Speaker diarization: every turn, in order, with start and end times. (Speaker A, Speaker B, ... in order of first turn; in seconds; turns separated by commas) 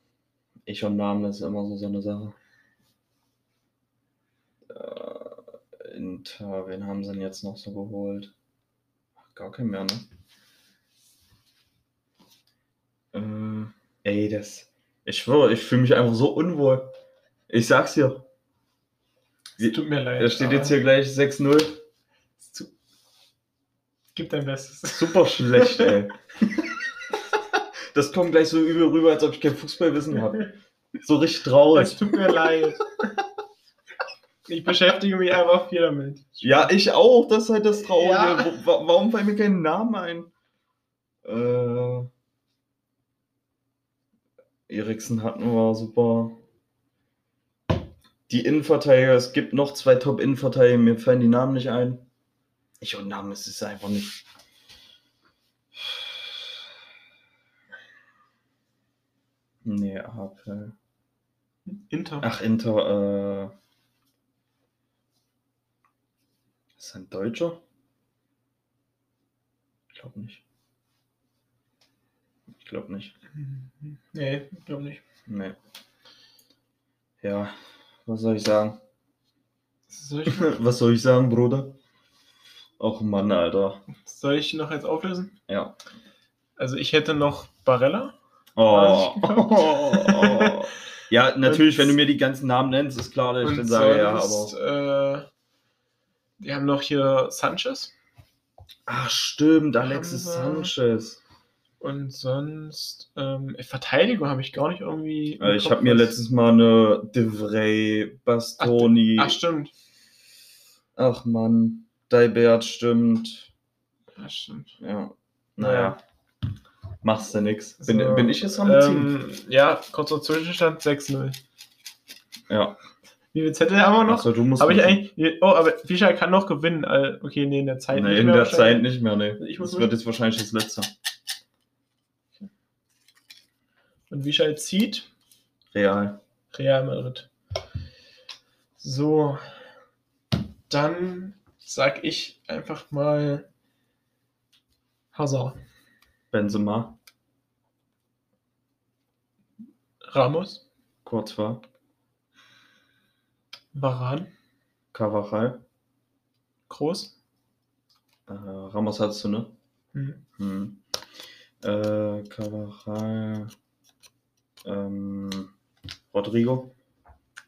Speaker A: 0.7-2.3, Speaker A: 4.7-8.3, Speaker A: 9.2-10.1, Speaker A: 13.1-17.0, Speaker A: 17.5-18.2, Speaker B: 19.6-20.8, Speaker A: 19.6-21.8, Speaker B: 22.4-22.7, Speaker B: 24.1-25.9, Speaker A: 24.9-26.8, Speaker A: 27.9-30.5, Speaker A: 31.0-32.3, Speaker B: 31.7-32.9, Speaker B: 34.5-36.7, Speaker A: 36.4-40.3, Speaker B: 37.8-38.5, Speaker A: 41.2-42.1, Speaker A: 44.7-46.4, Speaker A: 48.3-52.1, Speaker A: 52.8-54.2, Speaker A: 59.6-60.7, Speaker B: 61.6-62.3, Speaker A: 62.2-63.5, Speaker A: 66.8-67.6, Speaker A: 69.9-70.4, Speaker A: 72.5-73.1, Speaker B: 73.4-75.0, Speaker A: 75.3-75.5, Speaker A: 77.2-78.8, Speaker B: 79.9-80.5, Speaker A: 80.2-81.8, Speaker A: 82.8-83.8, Speaker B: 83.9-85.3, Speaker A: 85.5-85.7, Speaker B: 86.6-88.1, Speaker A: 88.5-94.5, Speaker B: 88.7-90.6, Speaker B: 91.4-91.9, Speaker B: 93.4-95.3, Speaker B: 96.4-97.9, Speaker A: 98.9-101.2, Speaker B: 99.8-100.7, Speaker B: 101.8-106.2, Speaker A: 105.4-109.4, Speaker B: 108.6-109.7, Speaker A: 111.0-113.5, Speaker B: 114.2-114.8, Speaker A: 114.8-116.0, Speaker B: 115.6-116.0, Speaker A: 117.0-119.1, Speaker B: 117.8-121.4, Speaker A: 122.5-122.8, Speaker B: 123.3-129.9, Speaker A: 124.0-125.1, Speaker A: 127.9-130.9, Speaker B: 134.1-135.1, Speaker A: 135.7-136.2, Speaker B: 136.5-137.3, Speaker B: 138.8-139.6, Speaker B: 140.7-143.5, Speaker B: 145.1-145.6, Speaker A: 146.3-147.0, Speaker B: 150.0-150.6, Speaker A: 151.0-151.6, Speaker B: 153.7-154.3, Speaker A: 154.9-155.6, Speaker B: 156.7-157.1, Speaker A: 158.3-159.5, Speaker B: 159.9-160.2, Speaker A: 160.4-160.8, Speaker A: 161.6-163.5, Speaker A: 164.6-165.5, Speaker A: 166.1-166.7